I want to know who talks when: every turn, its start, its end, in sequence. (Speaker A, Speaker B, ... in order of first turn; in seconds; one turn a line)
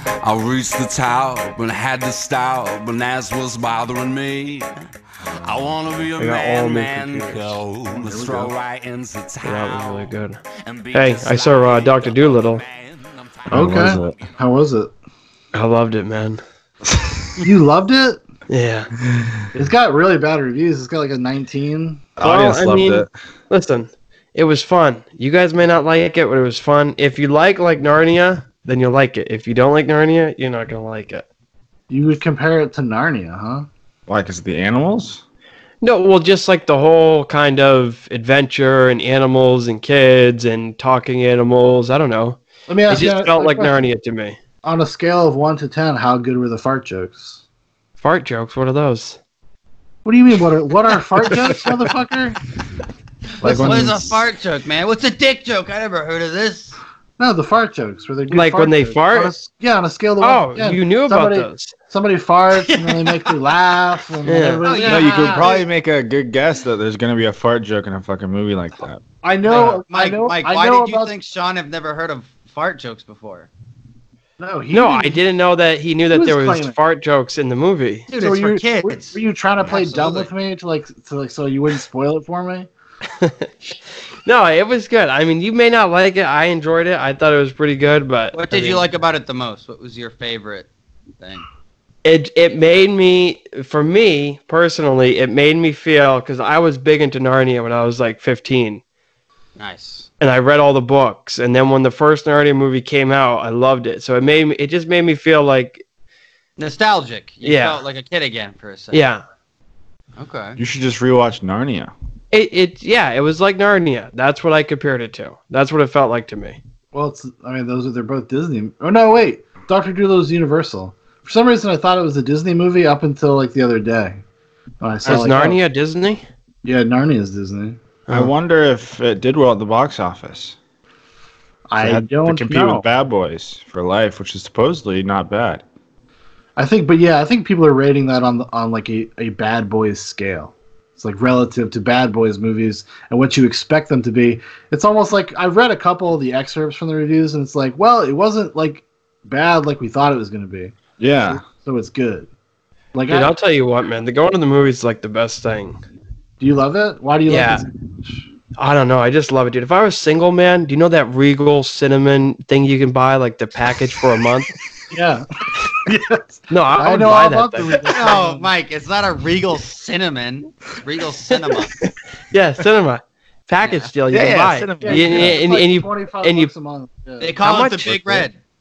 Speaker A: 0.2-4.8
Speaker A: 5.5-10.1
Speaker B: 6.2-7.6
Speaker C: 8.0-8.5
Speaker B: 9.4-10.4
Speaker A: 10.6-14.3
Speaker B: 10.9-12.6
Speaker D: 13.5-14.2
Speaker C: 13.5-14.9
Speaker B: 15.5-16.4
Speaker C: 17.4-18.2
Speaker B: 18.5-18.9
Speaker D: 19.1-19.4
Speaker C: 19.5-22.1
Speaker D: 22.2-23.1
Speaker B: 22.2-31.3
Speaker C: 31.9-33.7
Speaker D: 34.1-35.2
Speaker B: 35.8-44.4
Speaker C: 42.7-43.8
Speaker C: 44.6-47.4
Speaker B: 48.0-49.2
Speaker C: 50.0-52.4
Speaker C: 53.4-53.9
Speaker D: 53.4-54.2
Speaker E: 53.4-56.8
Speaker C: 57.2-65.5
Speaker B: 58.3-59.3
Speaker B: 60.2-61.7
Speaker E: 62.6-63.5
Speaker B: 64.3-64.7
Speaker E: 64.6-65.7
Speaker D: 64.8-69.0
Speaker C: 69.2-71.1
Speaker E: 69.5-73.5
Speaker C: 74.4-75.2
Speaker B: 74.7-78.1
Speaker C: 76.1-76.8
Speaker E: 78.1-80.3
Speaker C: 78.2-82.7
Speaker B: 83.2-88.8
Speaker E: 88.3-90.7
Speaker E: 91.2-91.5
Speaker B: 92.0-98.8
Speaker E: 99.6-100.1
Speaker B: 100.2-105.8
Speaker E: 106.6-109.0
Speaker B: 107.4-107.8
Speaker B: 108.9-109.2
Speaker E: 110.2-110.6
Speaker D: 110.6-111.9
Speaker B: 112.3-116.6
Speaker C: 116.9-124.2
Speaker C: 124.8-125.6
Speaker B: 125.0-126.2
Speaker C: 126.7-127.8
Speaker D: 128.1-130.6
Speaker C: 131.7-132.8
Speaker D: 131.8-135.6
Speaker C: 136.6-152.3
Speaker D: 151.0-151.4
Speaker C: 152.9-153.3
Speaker B: 153.1-155.8
Speaker C: 156.4-158.2
Speaker B: 157.3-157.6
Speaker B: 158.6-164.5
Speaker C: 164.9-168.5
Speaker B: 166.5-167.7
Speaker E: 167.9-171.7
Speaker B: 171.8-176.5
Speaker E: 173.6-173.9
Speaker D: 174.1-175.4
Speaker C: 174.8-177.4
Speaker E: 177.2-178.3
Speaker B: 177.4-178.3